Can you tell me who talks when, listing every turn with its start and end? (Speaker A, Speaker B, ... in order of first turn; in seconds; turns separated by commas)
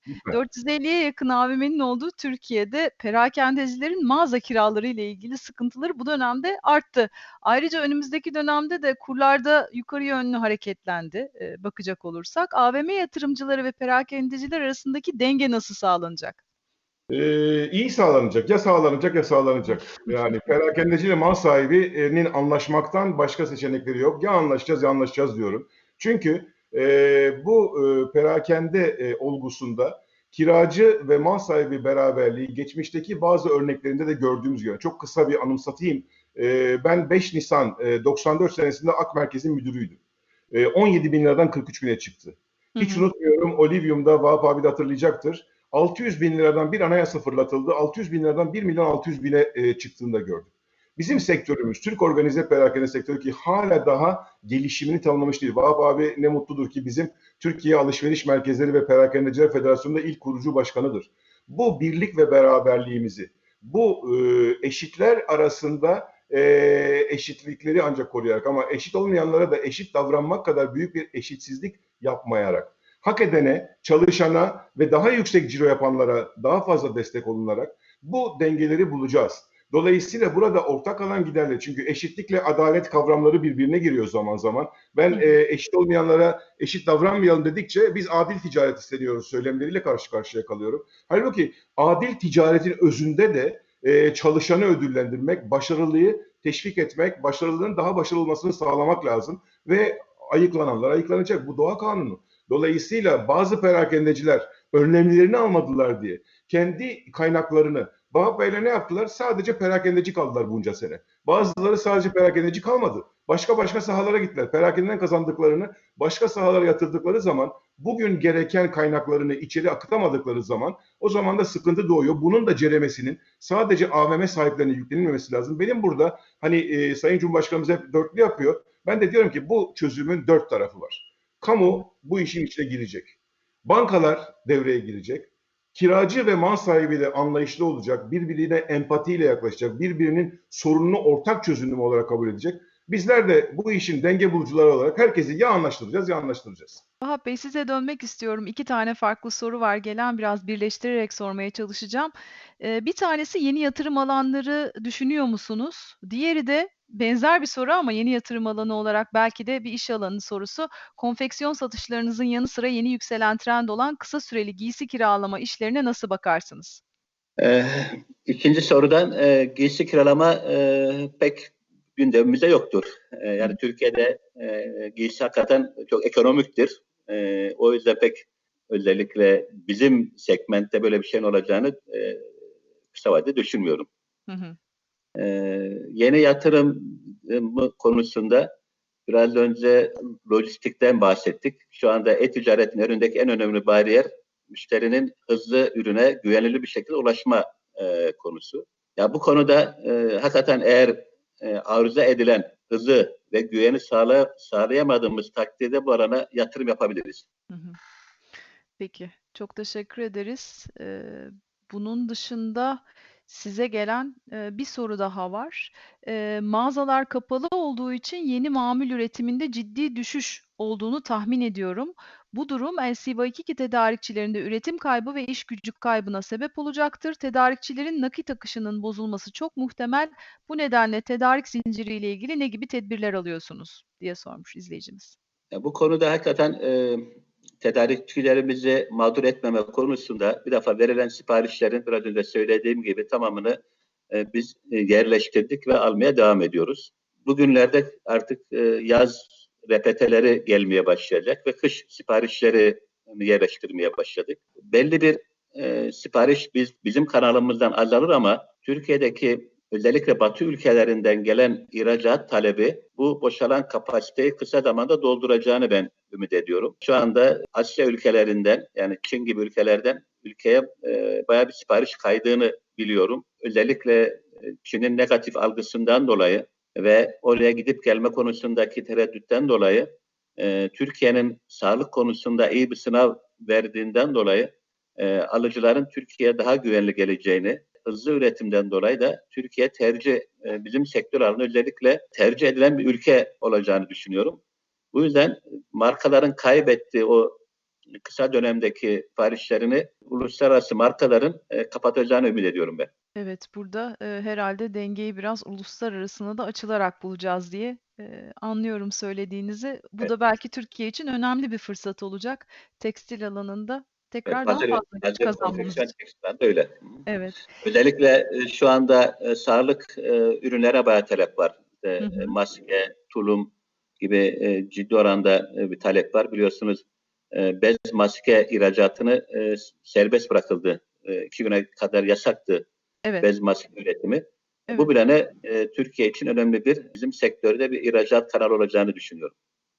Speaker A: 0.1-0.4, Speaker B: 0.3-16.4, Speaker A: 17.1-40.0, Speaker B: 19.7-20.4, Speaker A: 40.5-146.8, Speaker B: 42.7-43.0, Speaker B: 147.0-166.8, Speaker C: 167.4-182.2, Speaker C: 182.9-183.9, Speaker B: 184.3-184.6, Speaker C: 185.2-188.5, Speaker C: 189.1-207.2, Speaker B: 207.5-207.8, Speaker B: 208.8-235.2, Speaker C: 235.5-237.1, Speaker C: 237.6-243.6, Speaker C: 244.1-294.4, Speaker C: 294.9-297.4, Speaker C: 298.0-302.9, Speaker B: 303.1-315.9, Speaker C: 314.3-316.8, Speaker B: 317.1-317.4, Speaker C: 317.6-332.6, Speaker B: 322.0-322.3, Speaker C: 333.2-339.3